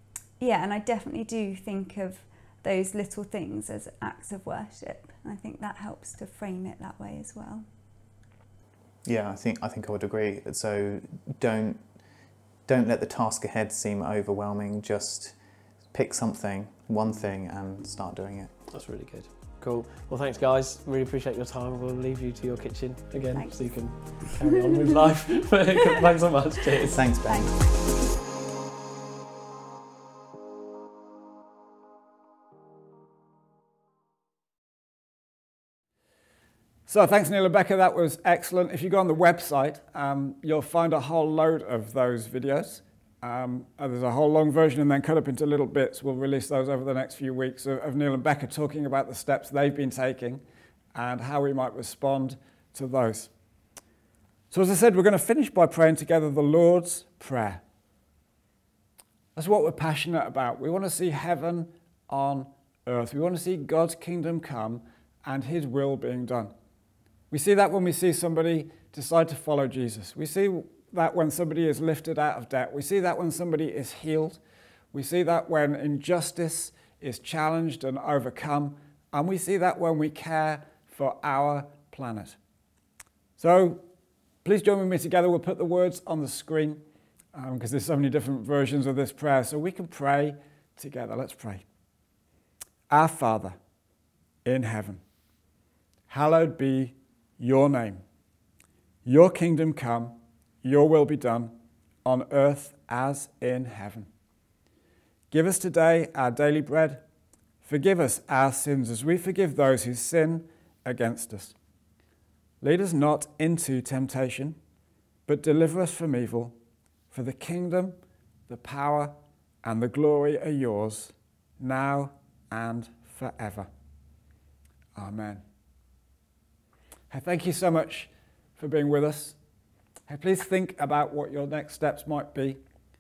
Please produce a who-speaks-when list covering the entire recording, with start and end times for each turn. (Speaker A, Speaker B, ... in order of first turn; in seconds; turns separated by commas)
Speaker A: 0.4-7.6, Speaker B: 9.0-11.8, Speaker B: 12.7-15.4, Speaker B: 15.9-18.5, Speaker C: 18.7-27.1, Speaker A: 23.3-24.7, Speaker B: 26.9-27.7, Speaker A: 27.2-27.5, Speaker D: 36.9-50.4, Speaker D: 51.0-53.3, Speaker D: 54.5-57.6, Speaker D: 59.4-66.5, Speaker D: 67.3-74.4, Speaker D: 74.9-82.4, Speaker D: 83.4-83.8, Speaker D: 84.4-86.8, Speaker D: 87.3-91.6, Speaker D: 92.9-93.6, Speaker D: 94.5-95.0, Speaker D: 96.1-98.0, Speaker D: 99.0-101.5, Speaker D: 102.0-104.1, Speaker D: 105.3-107.0, Speaker D: 107.6-111.5, Speaker D: 112.6-114.6, Speaker D: 115.3-116.5, Speaker D: 117.1-118.0, Speaker D: 118.5-123.7, Speaker D: 125.0-125.4, Speaker D: 127.1-129.4, Speaker D: 130.1-132.6